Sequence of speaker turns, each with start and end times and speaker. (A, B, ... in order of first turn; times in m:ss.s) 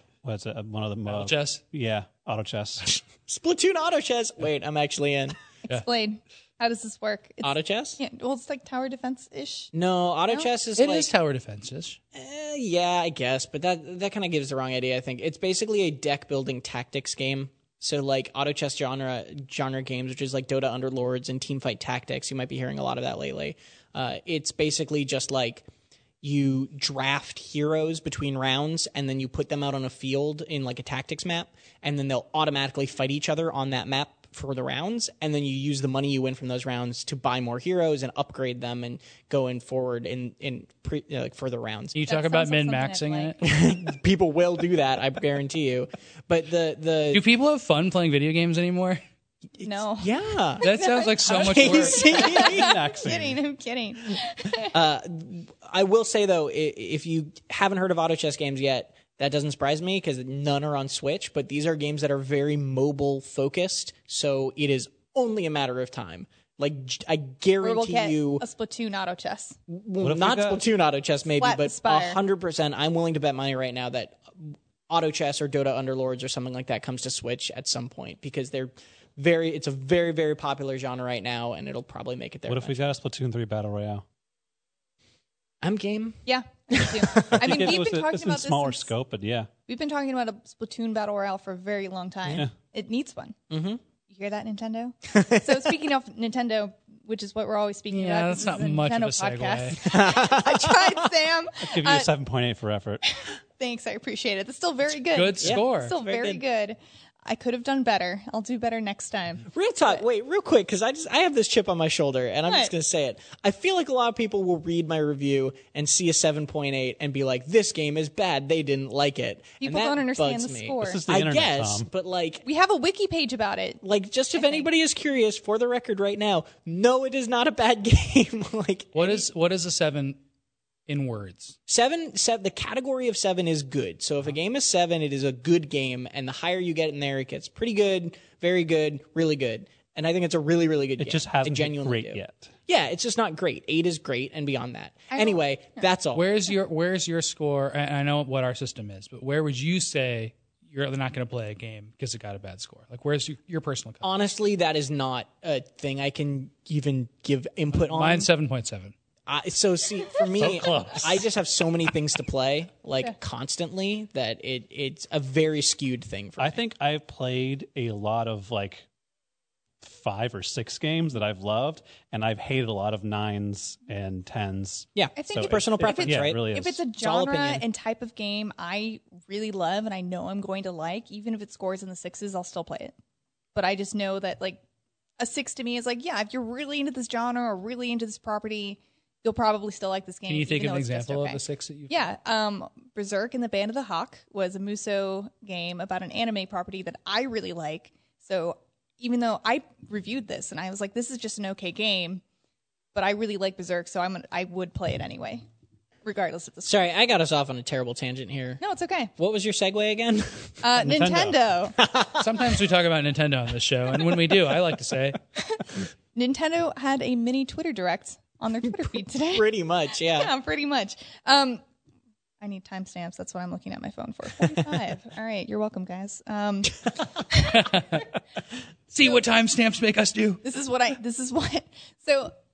0:00.2-0:02.9 A
0:01.1-0:01.6 B
0:02.9-0:05.4 C
0:05.7-0:09.7 D
0:07.4-0:08.0 C
0:09.7-0:11.1 C
0:10.8-0:12.0 B
0:12.1-0:25.7 C
0:26.2-0:42.0 C
0:41.9-0:43.4 B
0:42.1-0:43.3 D
0:43.4-0:47.2 C
0:47.1-0:49.0 B
0:49.6-0:50.7 C
0:49.6-0:54.7 D
0:50.6-0:52.4 B
0:51.2-0:52.8 C
0:51.4-0:53.4 A
0:54.7-1:08.4 C
1:07.6-1:09.6 D
1:09.7-1:22.8 C
1:10.0-1:10.6 A
1:11.4-1:12.2 D
1:22.5-1:24.0 A
1:25.6-1:27.7 C
1:26.3-1:28.9 D
1:27.2-1:29.5 A
1:29.7-1:33.4 D
1:33.5-1:33.8 C
1:34.1-1:42.1 D
1:35.1-1:35.8 C
1:37.9-1:39.9 B
1:39.8-1:41.1 C
1:41.6-1:43.0 A
1:43.1-1:50.0 D
1:45.1-1:45.9 B
1:45.4-1:46.4 C
1:49.5-2:02.4 C
1:52.5-1:52.7 D
1:59.6-2:01.0 D
2:00.8-2:01.9 A
2:02.4-2:03.8 D
2:03.8-2:09.2 C
2:04.4-2:04.7 D
2:09.0-2:10.2 B
2:10.9-2:11.6 B
2:11.7-2:26.2 C
2:21.0-2:22.5 A
2:25.1-2:25.8 D
2:26.1-2:34.1 B
2:34.0-2:38.3 C
2:37.7-2:38.9 B
2:39.3-2:46.6 C
2:40.4-2:41.1 A
2:40.5-2:41.0 B
2:46.4-2:48.9 A
2:49.8-2:56.8 A
2:55.0-2:57.6 C
2:55.2-3:03.0 D
3:03.6-3:04.6 D
3:05.2-3:22.2 D
3:10.3-3:12.0 B
3:22.9-3:25.4 D
3:26.0-3:26.8 D
3:26.6-3:28.6 C
3:28.6-3:29.1 D
3:29.2-3:30.6 C
3:30.6-3:31.8 D
3:30.8-3:31.4 A
3:31.8-3:32.5 C
3:32.2-3:35.2 B
3:36.2-3:39.5 D
3:39.3-3:40.3 C
3:40.0-3:41.6 D
3:42.4-3:47.7 D
3:47.4-3:48.0 B
3:48.9-3:50.4 B
3:50.4-3:52.3 D